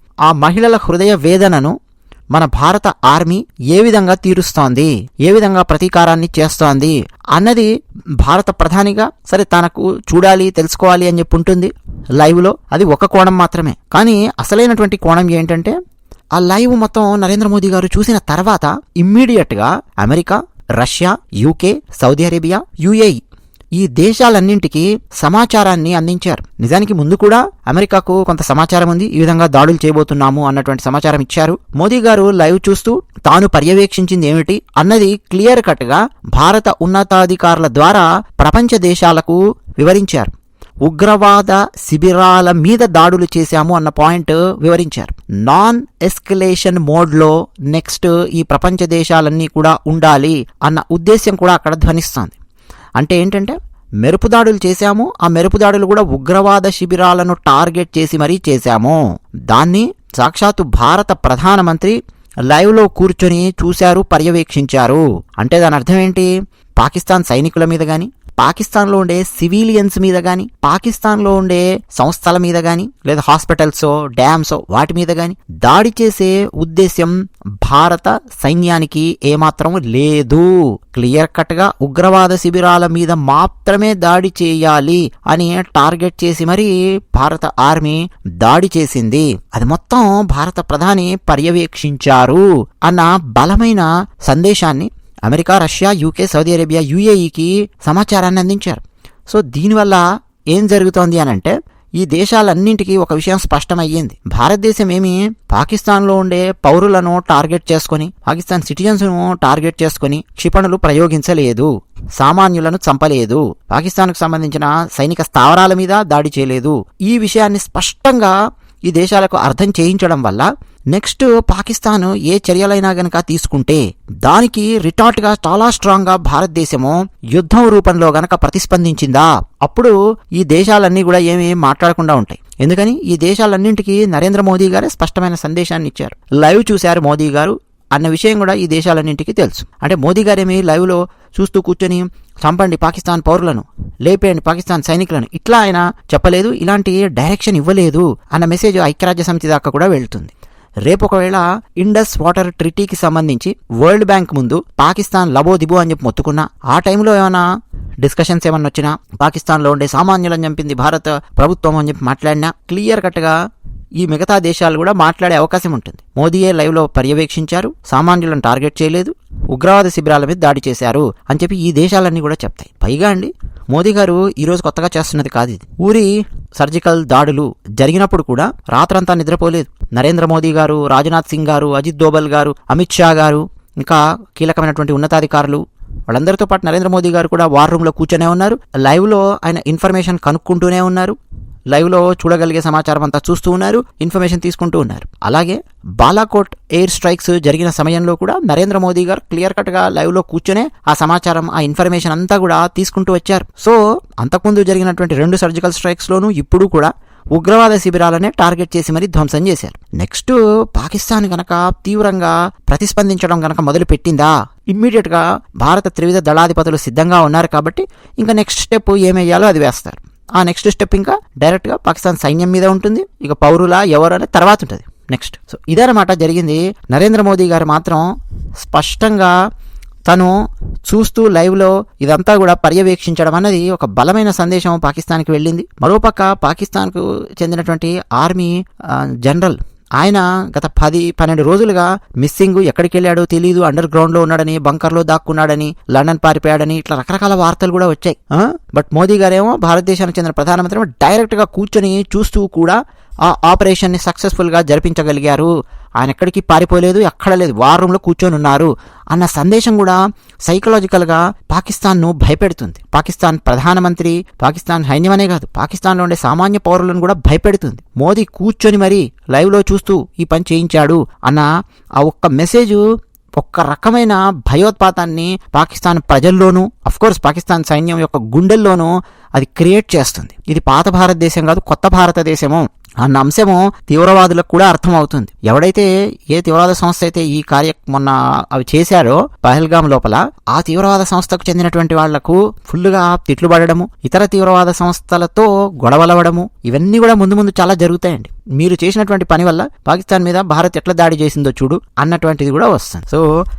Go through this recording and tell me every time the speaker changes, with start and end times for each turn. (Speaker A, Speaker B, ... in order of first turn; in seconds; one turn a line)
Speaker A: 0.2-1.7
Speaker A: 2.3-7.7
Speaker A: 8.2-15.7
Speaker A: 16.3-23.2
Speaker A: 23.7-40.3
Speaker A: 40.8-52.4
Speaker A: 53.0-59.0
Speaker A: 59.5-61.9
Speaker A: 62.5-150.3
Speaker A: 150.8-157.4
Speaker A: 158.0-163.3
Speaker A: 164.0-191.2
Speaker A: 191.7-228.1
Speaker A: 228.6-229.3
Speaker A: 230.1-271.5
Speaker A: 272.0-272.8
Speaker A: 273.4-303.3